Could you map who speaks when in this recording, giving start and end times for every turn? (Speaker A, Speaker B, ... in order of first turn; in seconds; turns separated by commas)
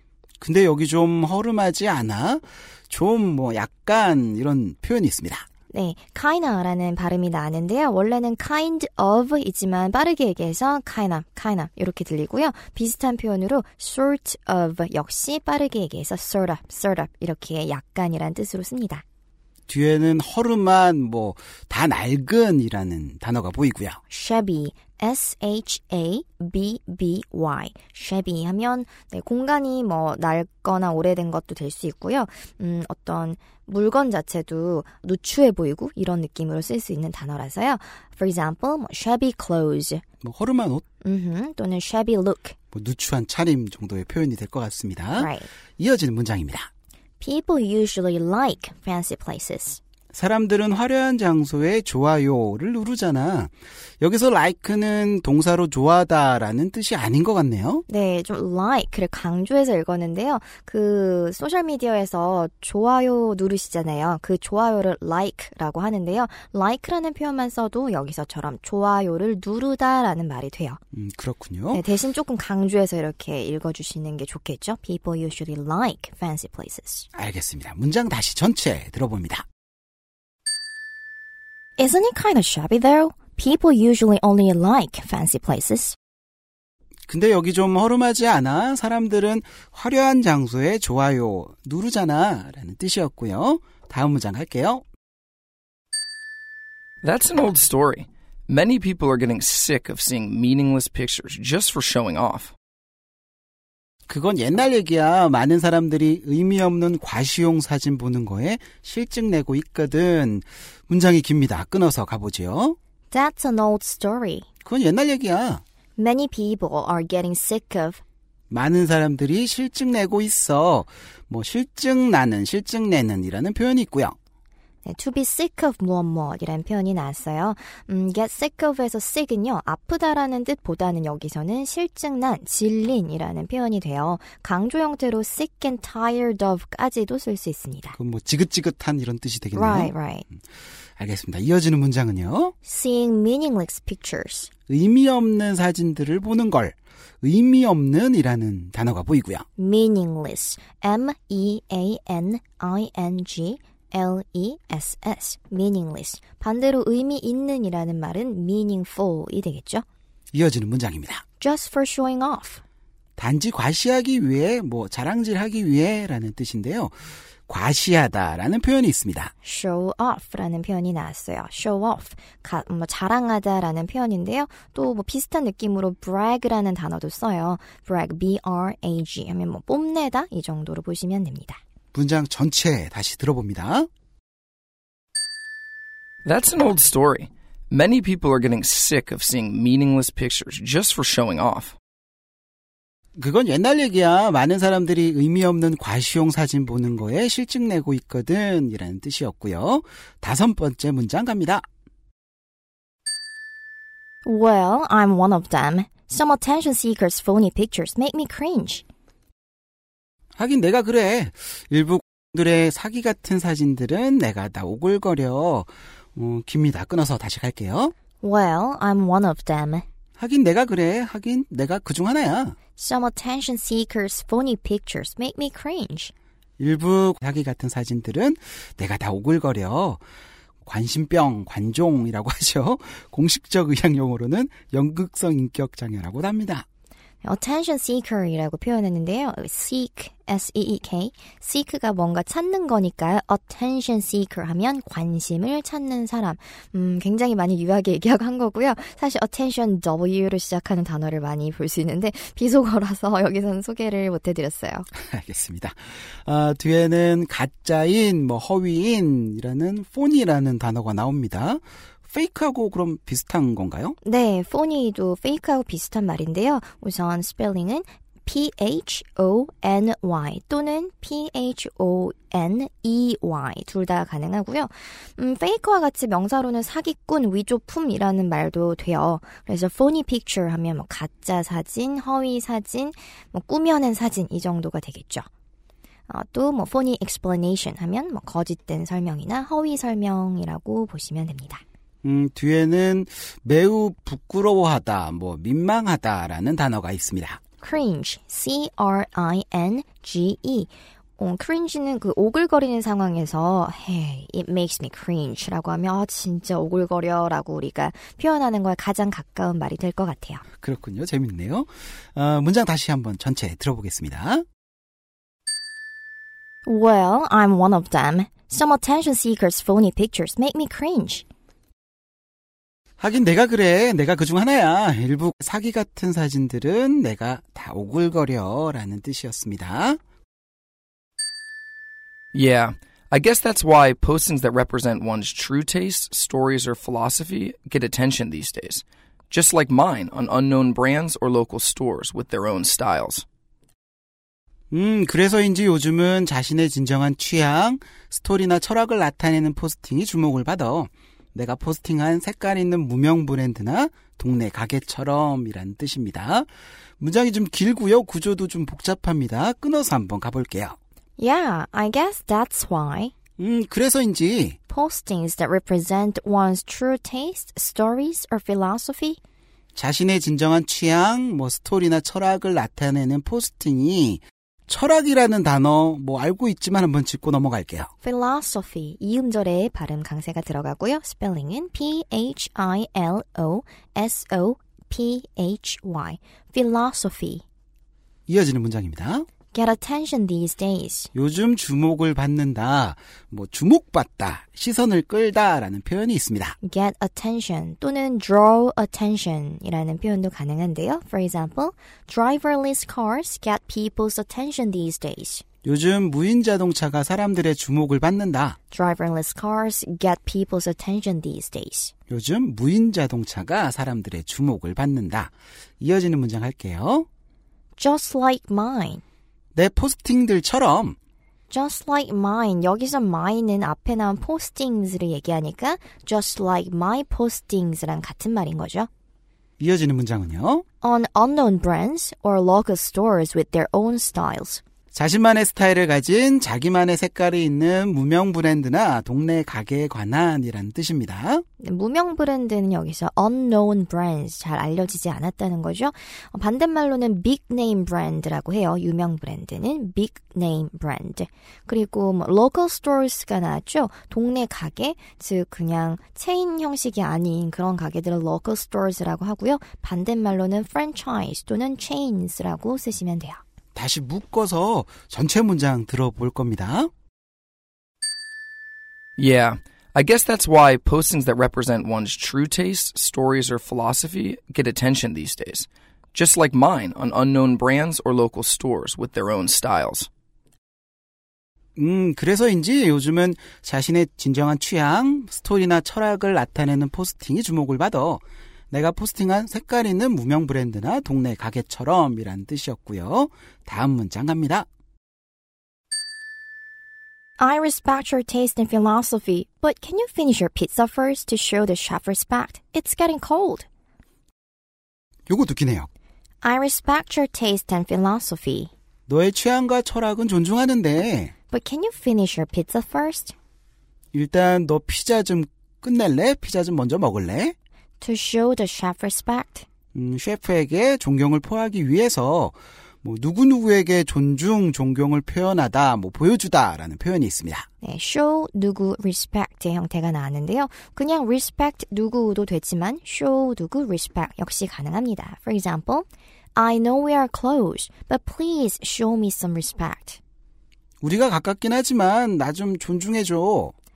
Speaker A: 0.4-5.5, Speaker B: 5.7-19.0, Speaker A: 19.7-24.0, Speaker B: 24.1-40.0, Speaker A: 40.2-40.8, Speaker B: 41.0-42.5, Speaker A: 42.7-46.7, Speaker B: 45.2-45.5, Speaker B: 47.2-49.8, Speaker A: 50.1-57.8, Speaker B: 57.9-70.8, Speaker A: 70.9-71.8, Speaker B: 71.7-77.0, Speaker A: 77.1-79.5, Speaker B: 81.8-86.0, Speaker A: 87.1-94.8, Speaker C: 97.0-102.5, Speaker A: 104.1-112.8, Speaker B: 113.1-114.5, Speaker A: 114.6-115.6, Speaker B: 116.0-118.0, Speaker A: 118.5-124.2, Speaker B: 124.8-137.9, Speaker A: 137.9-139.9, Speaker B: 139.5-140.2, Speaker A: 141.0-142.5, Speaker B: 142.6-144.5, Speaker A: 144.7-149.5, Speaker B: 149.6-159.8, Speaker A: 160.3-161.2, Speaker B: 161.4-162.6, Speaker A: 163.2-169.3, Speaker B: 169.4-181.6, Speaker A: 181.9-183.9, Speaker C: 186.2-191.7, Speaker A: 193.2-201.7, Speaker B: 204.2-208.8, Speaker A: 210.3-217.9, Speaker B: 218.2-219.8, Speaker A: 220.2-222.6, Speaker B: 222.8-226.1, Speaker A: 226.6-230.0, Speaker A: 230.7-236.7, Speaker B: 237.2-254.9, Speaker A: 254.9-264.0, Speaker B: 264.0-285.3, Speaker B: 286.1-291.6, Speaker A: 292.0-297.4, Speaker B: 297.6-310.4, Speaker A: 310.6-314.4, Speaker B: 316.6-321.2, Speaker A: 323.0-330.0, Speaker C: 332.3-343.2, Speaker A: 344.7-356.5, Speaker A: 357.0-360.8, Speaker B: 361.2-363.1, Speaker A: 363.4-364.6, Speaker B: 364.7-369.2, Speaker A: 369.7-377.9, Speaker B: 378.0-387.4, Speaker A: 388.3-389.3, Speaker B: 389.5-391.1, Speaker A: 391.1-396.6, Speaker B: 396.6-405.4, Speaker A: 405.6-408.6, Speaker B: 408.7-411.9, Speaker A: 412.1-417.1, Speaker B: 417.8-419.0, Speaker A: 419.5-420.9, Speaker B: 421.5-428.9, Speaker A: 429.6-430.6, Speaker B: 430.8-434.6, Speaker A: 434.9-441.4, Speaker B: 441.6-463.4, Speaker A: 463.7-466.9, Speaker C: 469.2-480.1, Speaker A: 481.8-494.7, Speaker B: 497.4-503.7, Speaker A: 505.3-505.9, Speaker B: 506.4-508.7, Speaker A: 509.1-511.3, Speaker B: 511.5-513.3, Speaker A: 514.1-517.5, Speaker B: 518.0-519.6, Speaker A: 519.9-527.7, Speaker B: 527.8-540.2, Speaker A: 541.0-543.7